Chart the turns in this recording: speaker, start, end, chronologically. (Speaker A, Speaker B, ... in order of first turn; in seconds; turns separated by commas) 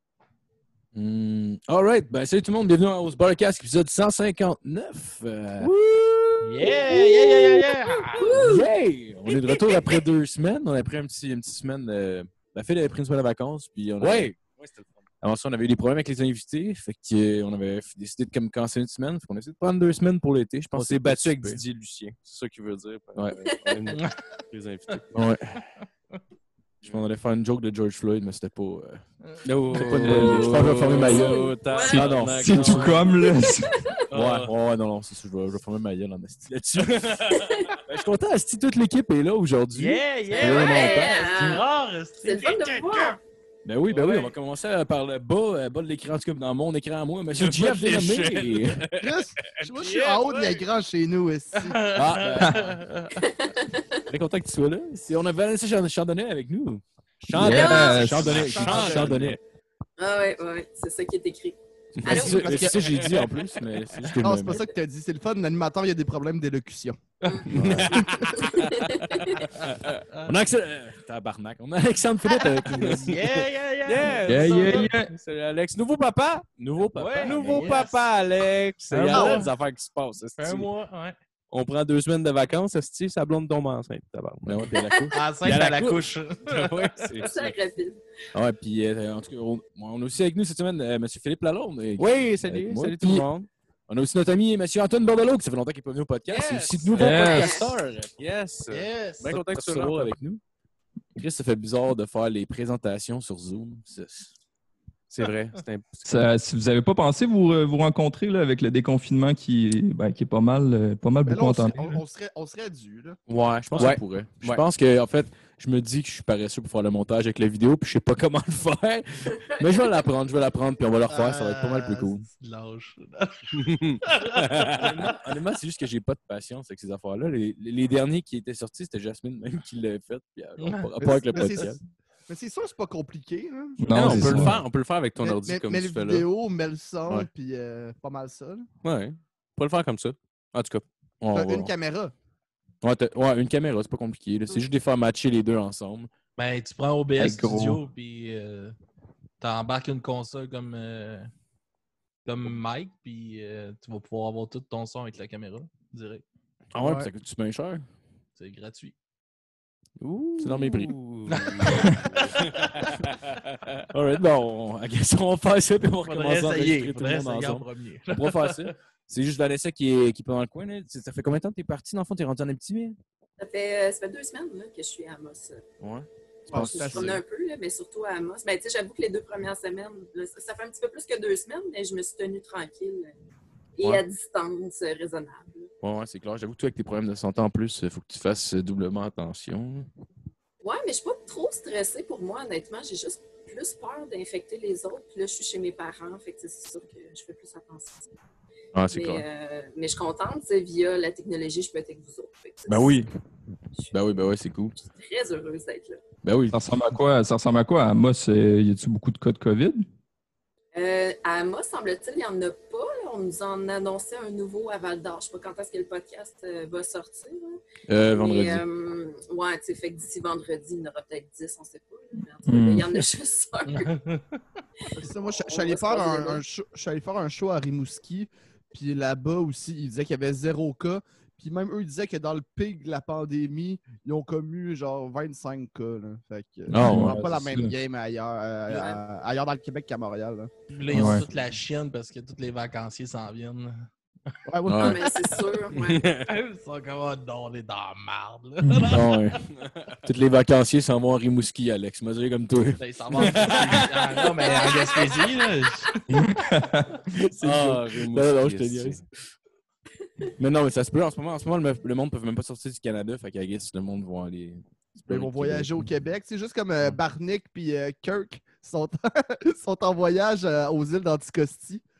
Speaker A: 0.9-14.4, Speaker B: 6.4-8.5, Speaker C: 8.1-8.7, Speaker C: 9.3-10.0, Speaker D: 14.0-14.8, Speaker A: 15.2-21.6, Speaker D: 20.7-25.2, Speaker A: 23.1-23.4, Speaker C: 23.5-23.8, Speaker B: 23.9-24.2, Speaker A: 25.1-25.6, Speaker A: 26.8-33.0, Speaker D: 29.4-33.1, Speaker E: 29.7-30.9, Speaker C: 31.2-32.1, Speaker E: 31.9-33.8, Speaker C: 33.2-34.0, Speaker D: 34.1-34.5, Speaker A: 34.1-37.3, Speaker B: 36.8-37.7, Speaker C: 37.4-37.8, Speaker A: 37.9-41.6, Speaker B: 39.7-43.2, Speaker C: 40.3-41.6, Speaker C: 42.2-43.2, Speaker A: 43.6-48.9, Speaker B: 43.9-44.3, Speaker D: 47.3-48.9, Speaker F: 48.9-51.9, Speaker B: 49.8-50.6, Speaker B: 51.6-53.3, Speaker A: 51.9-52.8, Speaker C: 53.2-54.0, Speaker A: 54.1-59.4, Speaker E: 57.3-58.3, Speaker C: 57.4-58.0, Speaker D: 58.0-59.4, Speaker F: 58.2-59.3, Speaker C: 60.0-62.8, Speaker A: 62.0-64.6, Speaker D: 62.2-63.1, Speaker F: 62.2-62.6, Speaker F: 64.1-67.0, Speaker C: 67.3-69.5, Speaker D: 67.5-68.4, Speaker A: 67.5-68.4, Speaker F: 67.8-68.3, Speaker B: 69.3-70.3, Speaker A: 70.2-73.4, Speaker B: 72.7-74.5, Speaker D: 72.8-73.1, Speaker D: 73.8-76.5, Speaker E: 74.2-75.1, Speaker A: 76.6-78.0, Speaker B: 76.9-78.0, Speaker D: 77.2-80.7, Speaker B: 78.9-79.5, Speaker F: 79.1-79.4, Speaker B: 80.4-81.2, Speaker D: 81.5-85.1, Speaker A: 84.4-86.0, Speaker B: 85.1-87.0, Speaker D: 86.5-87.3, Speaker A: 87.0-87.3, Speaker C: 87.2-88.0, Speaker A: 88.3-93.2, Speaker D: 92.0-93.5, Speaker A: 93.9-98.1, Speaker B: 96.3-96.9, Speaker D: 96.3-100.1, Speaker E: 97.0-97.5, Speaker C: 97.2-97.8, Speaker B: 98.7-99.3, Speaker A: 99.2-100.4, Speaker A: 101.1-104.3, Speaker D: 105.1-106.2, Speaker E: 106.0-111.8, Speaker F: 111.3-113.2, Speaker A: 113.3-122.3, Speaker D: 113.8-114.6, Speaker B: 121.1-125.2, Speaker D: 123.5-124.9, Speaker A: 124.7-131.8, Speaker B: 130.6-130.9, Speaker F: 131.0-134.6, Speaker E: 133.8-134.6, Speaker A: 133.9-134.6, Speaker D: 133.9-136.3, Speaker F: 135.2-138.6, Speaker D: 138.8-140.8, Speaker A: 141.2-141.7, Speaker F: 141.3-142.1, Speaker A: 142.8-146.1, Speaker B: 146.4-148.8, Speaker E: 147.2-147.8, Speaker B: 149.4-151.3, Speaker B: 152.2-156.2, Speaker A: 156.7-157.8, Speaker F: 156.8-157.1, Speaker B: 158.3-158.9, Speaker D: 160.0-162.8, Speaker A: 160.4-160.9, Speaker B: 161.3-163.0, Speaker A: 161.5-162.3, Speaker A: 163.9-173.0, Speaker B: 166.0-168.7, Speaker C: 173.4-175.6, Speaker A: 175.8-177.2, Speaker C: 176.4-183.1, Speaker F: 176.5-177.2, Speaker C: 183.8-185.7, Speaker A: 185.8-189.9, Speaker C: 190.6-198.1, Speaker A: 198.7-199.2, Speaker C: 198.9-203.0, Speaker A: 202.7-203.1, Speaker A: 203.9-204.8, Speaker C: 204.8-206.0, Speaker A: 206.2-206.6, Speaker E: 206.5-209.8, Speaker C: 210.7-223.9, Speaker A: 217.9-218.7, Speaker E: 222.4-223.1, Speaker B: 223.6-224.4, Speaker C: 224.8-226.4, Speaker F: 225.0-241.2, Speaker A: 236.7-237.3, Speaker E: 236.7-237.7, Speaker C: 238.7-239.0, Speaker B: 240.7-243.9, Speaker E: 240.9-241.2, Speaker F: 244.5-245.1, Speaker A: 244.7-245.0, Speaker C: 244.7-246.1, Speaker D: 245.9-246.2, Speaker B: 246.2-249.2, Speaker A: 248.8-249.4, Speaker A: 250.0-253.9, Speaker B: 252.8-256.0, Speaker D: 253.4-253.7, Speaker E: 256.1-257.2, Speaker A: 257.1-259.0, Speaker D: 257.4-259.0, Speaker A: 260.4-265.8, Speaker F: 265.1-271.8